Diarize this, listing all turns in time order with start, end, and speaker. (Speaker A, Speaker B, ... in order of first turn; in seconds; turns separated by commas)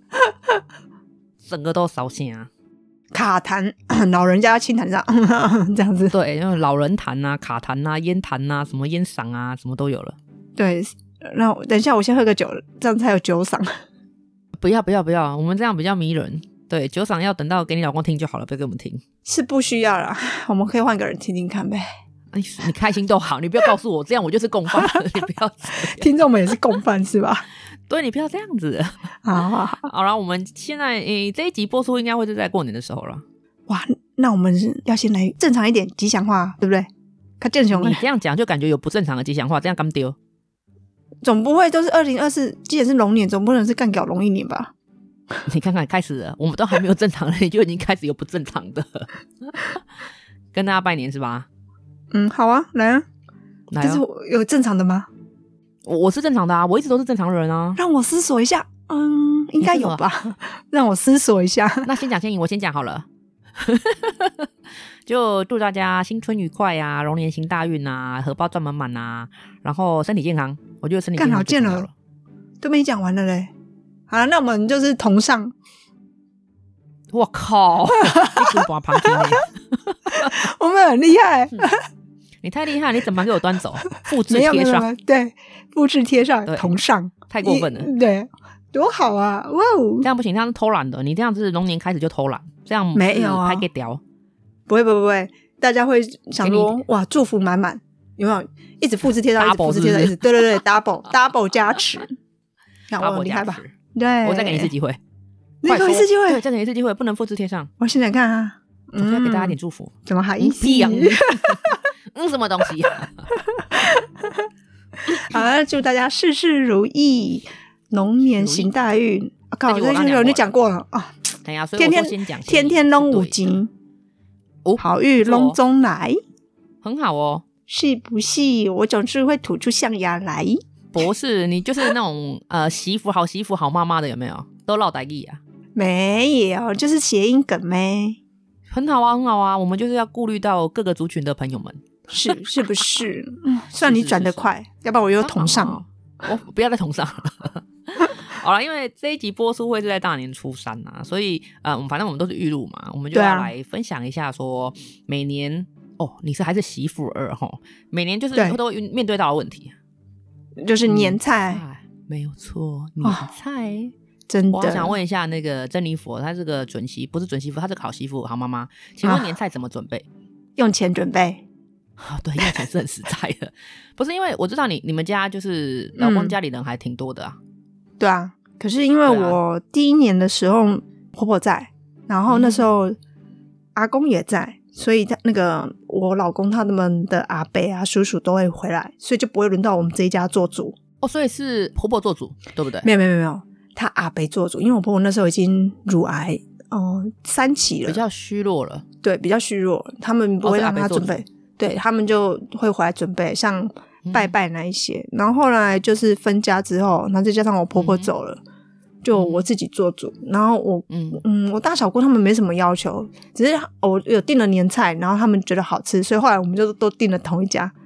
Speaker A: 0.3-0.6, Speaker B: 1.4-2.5, Speaker A: 3.1-6.1, Speaker B: 6.1-10.2, Speaker A: 10.6-13.7, Speaker B: 14.6-19.0, Speaker A: 19.2-21.9, Speaker B: 22.3-26.1, Speaker A: 24.7-25.1, Speaker A: 25.8-27.5, Speaker B: 27.9-29.1, Speaker A: 29.2-29.9, Speaker B: 29.7-33.2, Speaker A: 33.7-36.9, Speaker A: 37.4-38.0, Speaker B: 37.7-40.2, Speaker A: 41.2-44.7, Speaker B: 45.5-49.8, Speaker B: 50.5-51.5, Speaker A: 52.1-53.0, Speaker B: 53.7-54.0, Speaker A: 53.8-55.1, Speaker B: 55.8-57.8, Speaker A: 57.8-61.9, Speaker B: 59.6-60.0, Speaker B: 61.8-64.5, Speaker B: 65.1-71.9, Speaker A: 71.2-71.9, Speaker A: 72.6-73.5, Speaker A: 74.1-75.5, Speaker B: 77.1-80.3, Speaker A: 78.1-79.4, Speaker A: 80.1-81.8, Speaker B: 82.4-84.9, Speaker A: 84.3-90.1, Speaker B: 86.5-86.8, Speaker B: 87.3-87.9, Speaker B: 90.0-94.0, Speaker A: 93.0-93.7, Speaker A: 94.7-102.1, Speaker B: 96.4-96.8, Speaker B: 99.4-100.6, Speaker A: 102.9-104.7, Speaker B: 103.0-105.0, Speaker A: 105.6-106.4, Speaker B: 105.7-107.7, Speaker A: 107.8-111.8, Speaker B: 109.0-113.3, Speaker A: 113.3-114.5, Speaker A: 115.1-121.2, Speaker B: 118.4-118.7, Speaker B: 119.7-120.5, Speaker B: 121.5-123.5, Speaker A: 121.8-123.7, Speaker B: 124.7-125.6, Speaker A: 124.8-126.2, Speaker B: 126.8-127.5, Speaker A: 127.7-130.6, Speaker B: 130.9-135.4, Speaker A: 135.8-138.2, Speaker B: 138.7-142.4, Speaker A: 142.1-145.8, Speaker B: 143.8-144.5, Speaker B: 145.2-159.8, Speaker A: 153.1-153.5, Speaker A: 158.3-158.6, Speaker A: 160.6-161.6, Speaker B: 160.8-163.9, Speaker A: 164.3-165.0, Speaker B: 164.5-170.1, Speaker A: 170.6-171.4, Speaker B: 172.0-177.4, Speaker A: 176.0-176.3, Speaker A: 178.0-183.0, Speaker B: 179.1-179.4, Speaker B: 182.3-182.7, Speaker A: 183.8-190.8, Speaker B: 191.0-192.9, Speaker A: 192.8-198.0, Speaker B: 197.9-198.8, Speaker A: 199.0-208.4, Speaker B: 200.4-201.2, Speaker B: 204.1-204.3, Speaker B: 207.8-208.1, Speaker A: 209.0-217.7, Speaker B: 209.1-209.5, Speaker B: 210.9-211.2